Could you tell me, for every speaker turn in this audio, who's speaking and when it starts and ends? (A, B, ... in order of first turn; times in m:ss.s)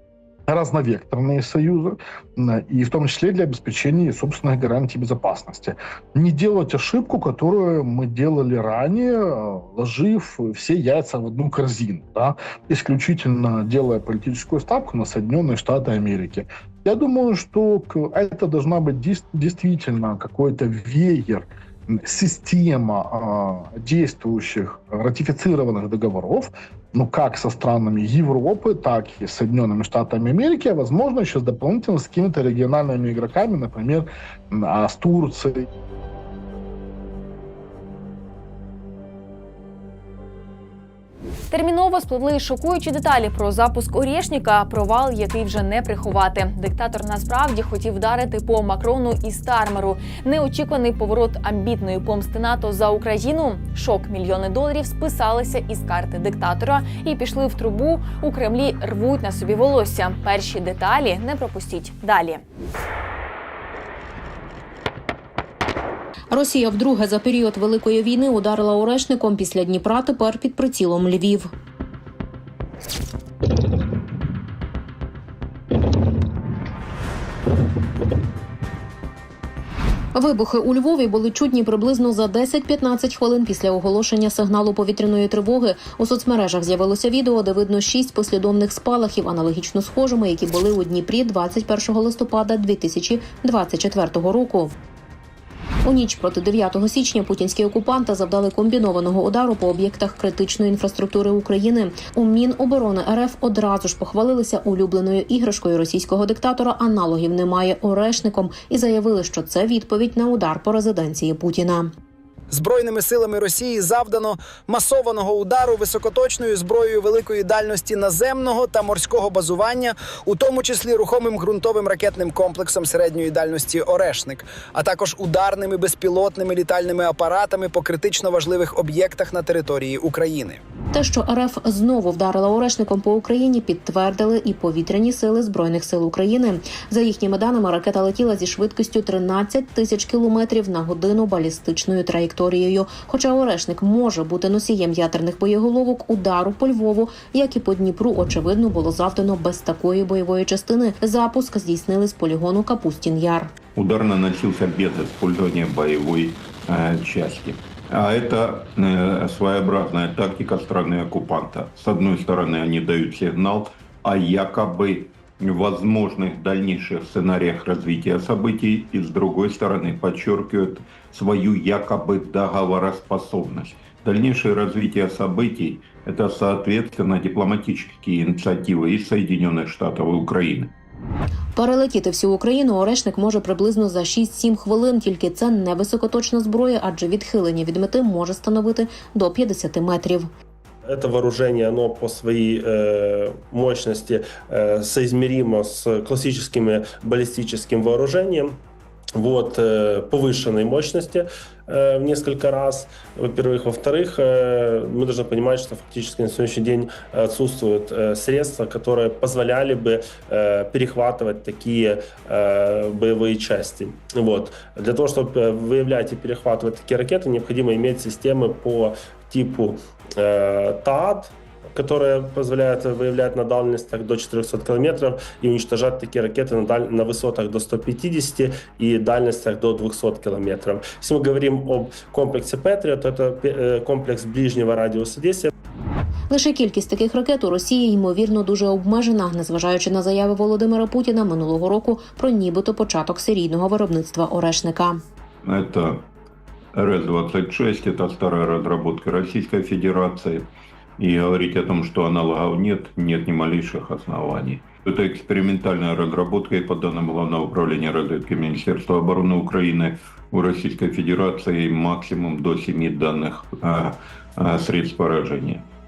0:00.5-0:35.7 A
0:41.5-1:02.4 B
1:06.3-1:11.5 C
1:20.1-1:34.8 C
1:35.8-1:51.9 C
1:52.5-2:10.6 D
2:10.9-2:33.5 C
2:33.8-3:00.7 E
3:01.6-3:10.3 C
3:10.8-3:18.6 F
3:19.2-3:55.5 F
3:56.3-4:05.0 C
4:05.4-4:06.1 E
4:06.7-4:25.7 E